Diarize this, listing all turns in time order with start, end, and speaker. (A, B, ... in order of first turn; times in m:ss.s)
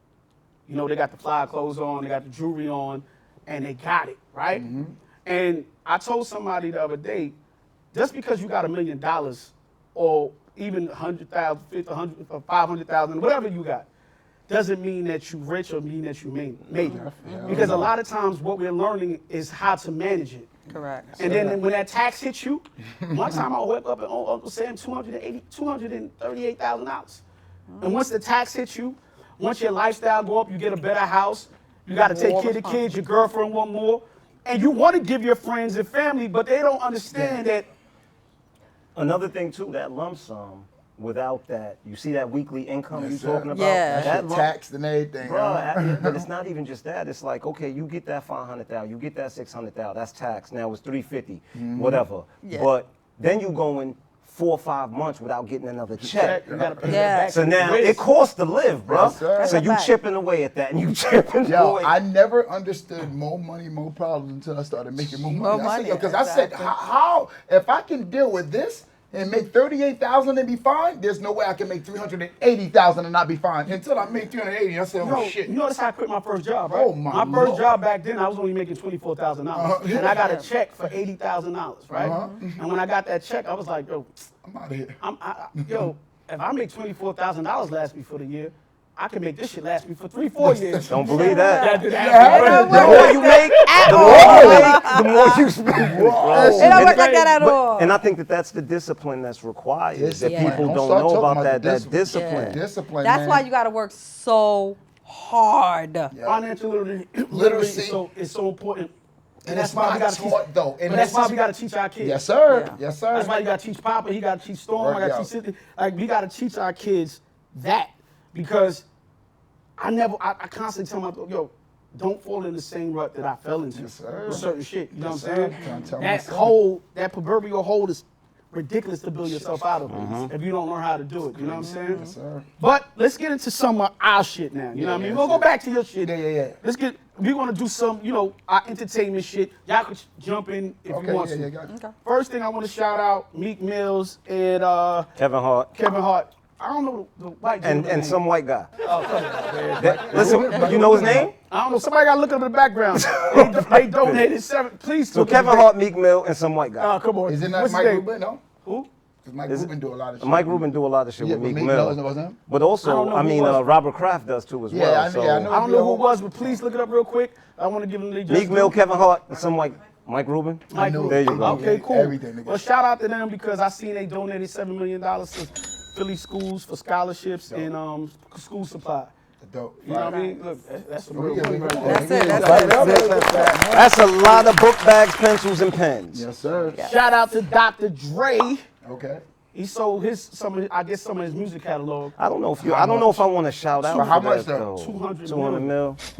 0:00.7-0:04.6 A
0:04.5-0:05.0 B
0:05.2-0:07.4 A
0:07.9-0:13.9 A
0:14.5-0:20.5 A
0:16.8-0:17.9 B
0:17.2-0:17.8 C
0:20.7-0:21.2 C
0:20.7-0:21.6 B
0:21.2-0:27.2 A
0:23.0-0:23.4 B
0:27.7-0:28.0 C
0:27.8-0:37.7 A
0:32.0-0:32.8 C
0:37.1-0:37.4 B
0:38.9-0:44.5 D
0:42.9-0:46.2 B
0:43.5-0:44.1 C
0:45.2-0:56.4 D
0:51.5-0:52.0 B
0:52.4-0:52.7 C
0:56.0-0:57.0 B
0:56.1-0:58.0 A
0:56.9-0:57.3 C
0:57.3-1:01.9 D
0:58.8-0:59.7 B
0:59.3-0:59.9 C
1:01.4-1:15.6 B
1:05.3-1:06.7 C
1:15.0-1:24.2 A
1:16.7-1:17.7 B
1:19.5-1:20.2 B
1:20.1-1:20.5 C
1:21.9-1:22.6 B
1:22.0-1:22.4 C
1:24.4-1:25.0 B
1:25.0-1:34.7 A
1:25.6-1:25.9 B
1:30.4-1:31.3 B
1:30.9-1:42.6 D
1:31.0-1:35.4 C
1:31.8-1:35.0 B
1:35.6-1:37.0 B
1:36.3-1:37.4 A
1:36.6-1:38.0 C
1:39.9-1:43.5 B
1:40.2-1:40.7 C
1:42.1-1:46.1 C
1:46.1-1:46.4 B
1:46.2-1:48.9 A
1:47.3-1:48.0 B
1:49.4-1:51.4 B
1:49.4-1:52.2 A
1:52.0-1:53.4 B
1:52.5-1:52.8 C
1:53.1-1:58.8 A
1:54.7-1:55.3 B
1:59.8-2:12.0 A
2:03.7-2:06.6 B
2:09.2-2:10.2 B
2:09.9-2:10.3 D
2:11.3-2:12.5 B
2:11.6-2:12.2 C
2:12.6-2:21.5 A
2:14.7-2:15.5 B
2:16.0-2:16.6 B
2:20.9-2:21.7 B
2:21.7-2:21.9 C
2:22.0-2:25.1 A
2:25.2-2:25.7 D
2:25.7-2:28.2 A
2:27.6-2:28.7 D
2:28.8-2:35.7 A
2:29.8-2:31.3 D
2:29.8-2:31.3 B
2:32.9-2:34.3 D
2:35.1-2:36.9 D
2:36.8-2:38.0 A
2:37.2-2:38.4 B
2:38.6-2:38.9 A
2:39.2-2:40.6 B
2:39.5-2:45.5 D
2:41.2-2:42.4 B
2:42.8-2:43.6 A
2:44.7-2:46.6 B
2:45.5-2:48.8 A
2:48.3-2:51.7 D
2:50.7-2:59.1 A
2:50.7-2:52.6 B
2:59.4-3:00.2 B
2:59.8-3:03.6 A
3:00.0-3:00.4 C
3:01.1-3:04.0 B
3:01.8-3:03.5 C
3:02.4-3:06.2 D
3:06.1-3:06.8 B
3:06.8-3:08.6 A
3:08.8-3:09.2 B
3:09.5-3:12.1 A
3:12.2-3:16.0 D
3:12.6-3:13.2 B
3:13.8-3:14.2 A
3:13.9-3:14.7 B
3:14.8-3:15.7 A